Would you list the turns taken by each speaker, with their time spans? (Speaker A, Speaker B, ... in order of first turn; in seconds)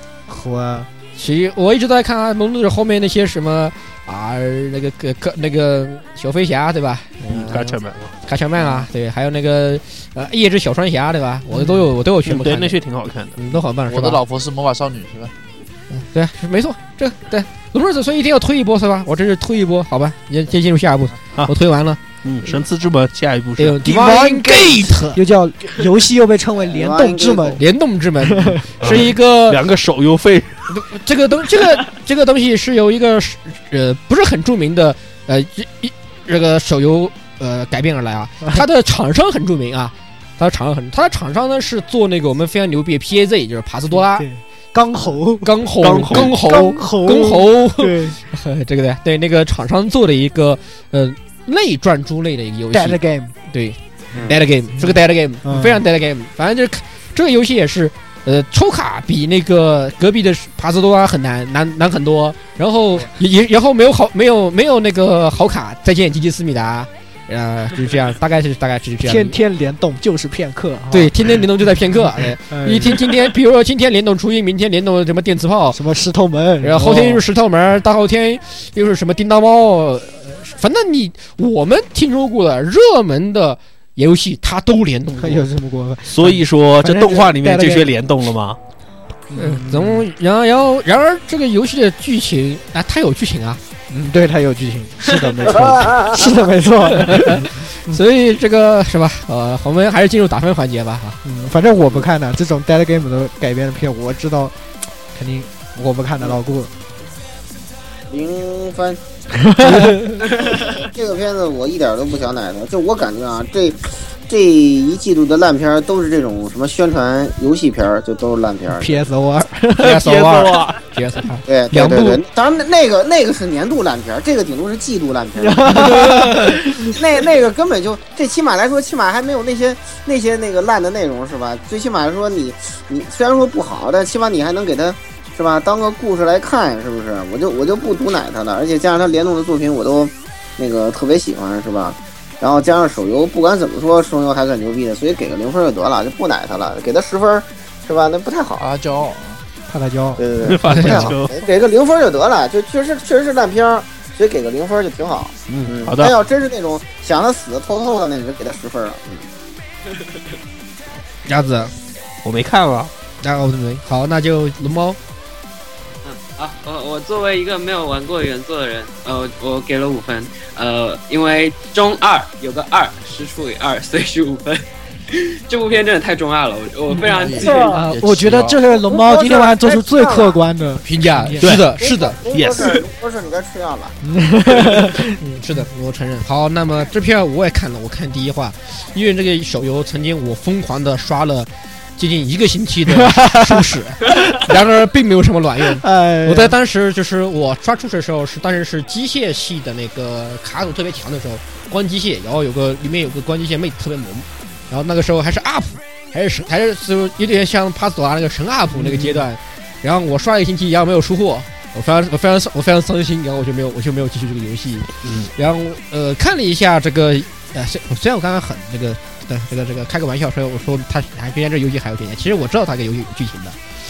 Speaker A: 0.3-0.9, 11.5-11.9, 23.8-27.6, 28.2-29.1, 43.9-48.2, 52.7-53.3, 54.8-55.8, 69.0-73.2, 75.7-77.3, 85.2-87.9, 89.3-90.1, 93.9-98.0, 101.2-104.6, 105.1-106.7, 109.3-110.3, 118.7-120.1, 125.4-127.1, 149.7-151.1, 177.5-181.6, 184.0-185.6, 192.9-193.7, 195.7-196.6, 208.8-209.2
Speaker B: 1.2-12.8, 13.4-14.2, 15.9-22.0, 23.6-25.2, 27.6-29.6, 30.7-44.3, 45.4-69.4, 70.9-75.8, 76.6-85.5, 89.3-93.6, 97.0-101.2, 109.7-110.2, 119.8-122.2, 150.7-151.1, 161.3-161.7, 163.2-165.0, 180.9-182.2, 185.2-223.6
Speaker C: 7.3-8.1, 12.2-13.4, 22.2-23.8, 28.8-30.6, 45.8-46.3, 86.1-88.6, 119.8-120.8, 125.8-126.5, 150.4-151.3, 155.5-156.1, 162.2-162.9, 181.4-181.7, 182.3-182.8, 215.0-215.3
Speaker D: 8.6-8.9, 13.9-15.3, 148.6-149.4, 177.1-178.7
Speaker E: 26.6-27.6, 95.5-96.2, 108.1-109.0, 110.2-119.0, 121.5-126.2, 126.9-148.7, 150.2-159.2, 177.4-177.8, 178.7-180.4, 181.8-184.0
Speaker F: 159.9-160.2, 166.0-177.8